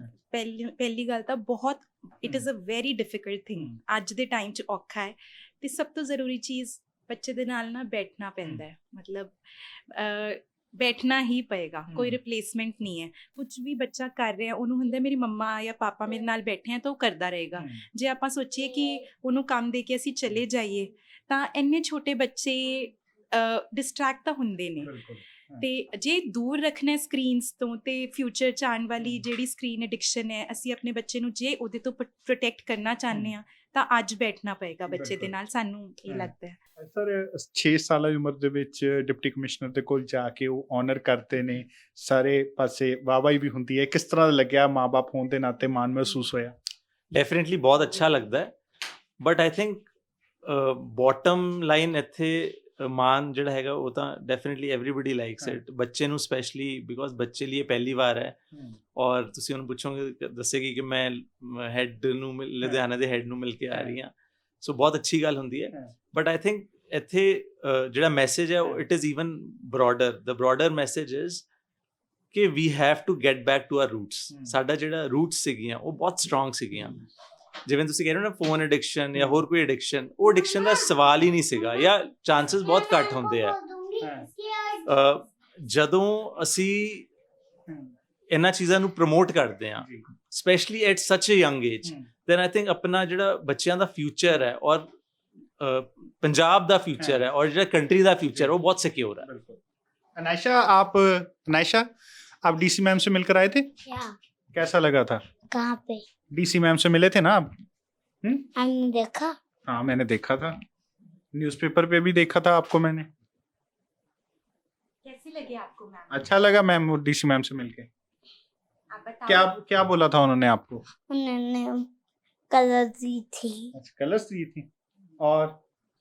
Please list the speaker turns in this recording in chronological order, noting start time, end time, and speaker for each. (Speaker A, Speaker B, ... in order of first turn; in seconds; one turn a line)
Speaker A: 0.3-24.9
Speaker B: 11.9-12.2
Speaker B: 17.5-17.8
Speaker B: 24.8-25.6
Speaker A: 25.6-36.6
Speaker B: 29.0-29.3
Speaker B: 34.9-35.3
Speaker B: 36.1-46.5
Speaker C: 47.1-48.5
Speaker C: 49.2-49.9
Speaker C: 50.4-58.4
Speaker C: 59.0-71.4
Speaker B: 63.7-64.0
Speaker C: 72.3-77.0
Speaker B: 74.3-74.5
Speaker C: 77.6-83.5
Speaker B: 79.1-79.4
Speaker D: 80.2-80.9
Speaker D: 82.5-85.0
Speaker B: 84.0-84.3
Speaker C: 84.8-87.1
Speaker C: 88.3-94.9
Speaker B: 89.8-90.0
Speaker C: 95.6-99.3
Speaker B: 99.2-99.6
Speaker B: 100.2-101.9
Speaker B: 102.4-103.7
Speaker D: 103.8-104.1
Speaker B: 104.5-105.2
Speaker D: 105.5-106.0
Speaker B: 106.3-107.5
Speaker D: 108.5-109.3
Speaker B: 109.7-110.6
Speaker B: 111.3-113.1
Speaker A: 115.0-116.2
Speaker B: 116.1-117.9
Speaker A: 118.9-119.5
Speaker B: 119.3-120.8
Speaker D: 121.1-121.9
Speaker D: 122.5-123.7
Speaker B: 123.7-124.7
Speaker B: 125.2-125.6